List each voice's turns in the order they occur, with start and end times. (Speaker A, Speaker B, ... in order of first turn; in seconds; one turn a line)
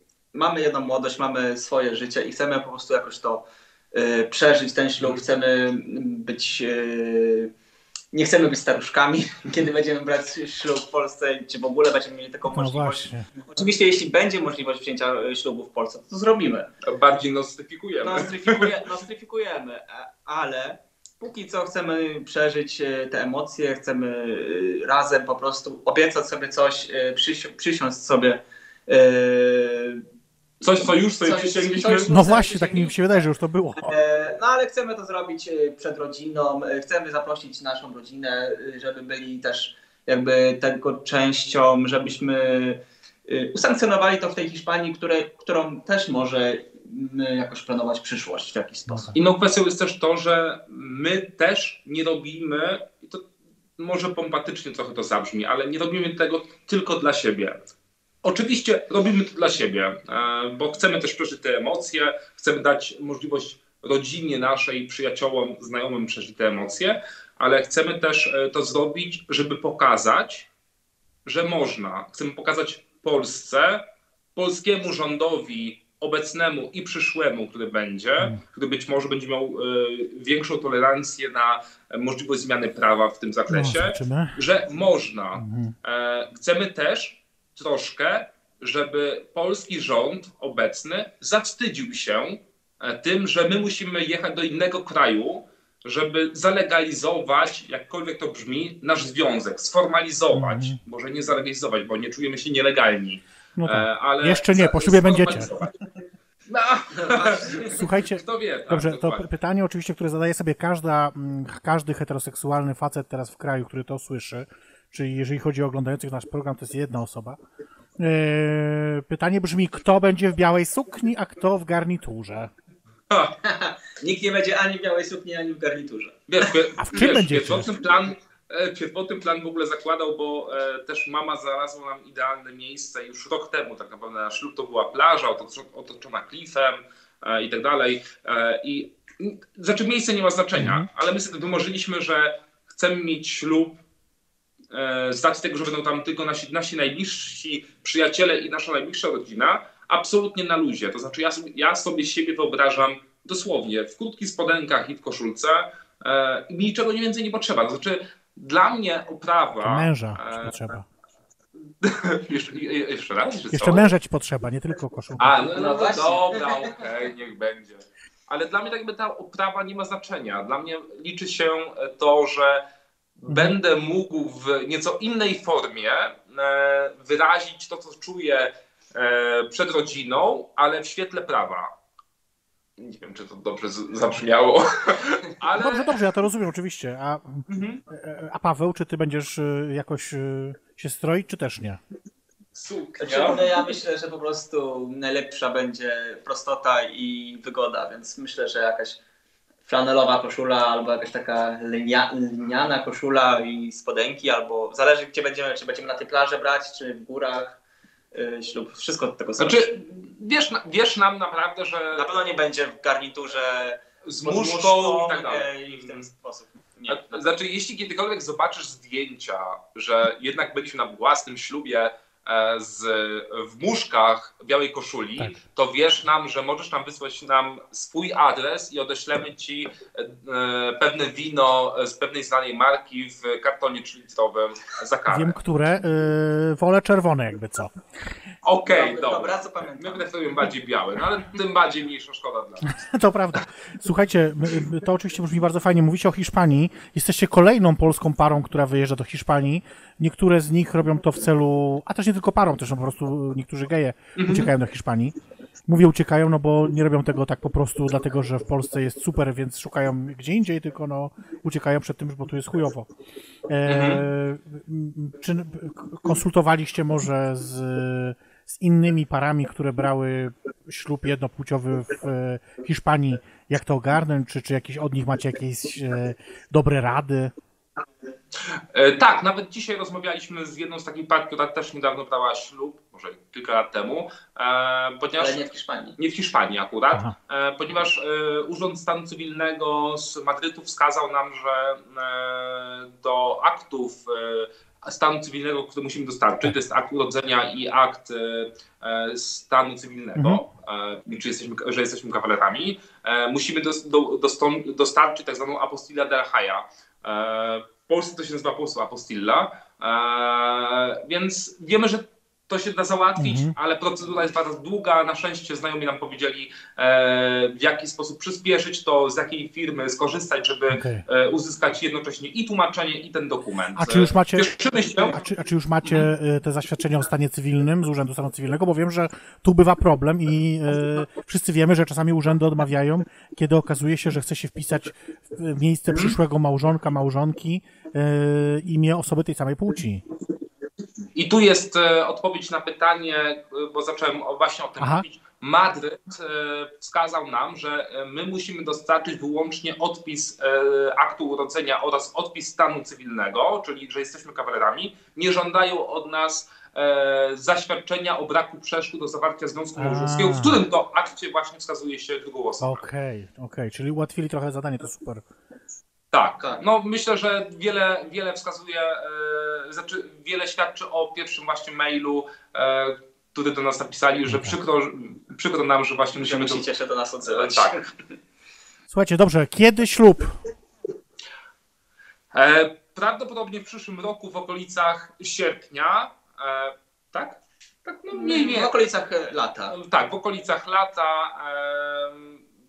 Speaker A: 0.3-7.5
Speaker A: 8.1-16.7
Speaker B: 12.4-13.2
Speaker C: 16.8-18.8
Speaker A: 18.0-30.0
Speaker C: 30.6-32.1
Speaker A: 30.6-33.0
Speaker B: 32.1-33.9
Speaker A: 33.8-49.1
Speaker B: 48.9-49.2
Speaker C: 49.1-53.2
Speaker C: 53.8-57.6
Speaker C: 58.2-70.5
Speaker C: 71.2-73.8
Speaker C: 74.3-105.8
Speaker B: 83.5-84.4
Speaker B: 85.3-85.7
Speaker B: 100.3-100.8
Speaker B: 103.6-105.5
Speaker C: 106.5-109.3
Speaker A: 107.0-107.7
Speaker B: 107.6-117.4
Speaker B: 118.0-122.5
Speaker A: 123.4-126.2
Speaker C: 126.3-143.8
Speaker B: 126.8-127.7
Speaker B: 140.6-140.9
Speaker C: 144.7-160.6
Speaker B: 159.6-160.8
Speaker C: 161.8-163.9
Speaker B: 163.5-165.4
Speaker C: 165.2-172.6
Speaker A: 165.5-166.7
Speaker C: 173.2-181.7
Speaker B: 173.3-173.5
Speaker C: 182.8-186.1
Speaker B: 185.6-191.8
Speaker C: 187.5-187.8
Speaker C: 192.5-193.4
Speaker A: 193.0-199.0
Speaker A: 199.7-207.6
Speaker A: 208.1-209.7
Speaker C: 209.4-212.1
Speaker A: 211.9-217.3
Speaker C: 214.1-216.1
Speaker C: 216.9-235.4
Speaker B: 235.1-237.7
Speaker C: 238.4-242.7
Speaker A: 238.7-240.1
Speaker B: 242.6-255.1
Speaker C: 254.2-254.5
Speaker B: 255.7-262.9
Speaker B: 263.5-277.3
Speaker C: 263.7-264.0
Speaker C: 278.5-285.4
Speaker A: 285.2-285.9
Speaker C: 286.0-325.2
Speaker B: 300.1-300.4
Speaker B: 313.2-313.5
Speaker B: 320.7-321.0
Speaker B: 323.8-340.0
Speaker C: 335.9-336.2
Speaker C: 341.1-362.8
Speaker B: 344.8-345.0
Speaker B: 359.8-360.6
Speaker B: 362.6-365.2
Speaker C: 366.1-376.6
Speaker B: 374.3-374.6
Speaker A: 376.1-377.9
Speaker C: 377.2-377.8
Speaker B: 378.9-380.3
Speaker C: 382.3-388.7
Speaker A: 388.1-389.7
Speaker C: 389.7-392.4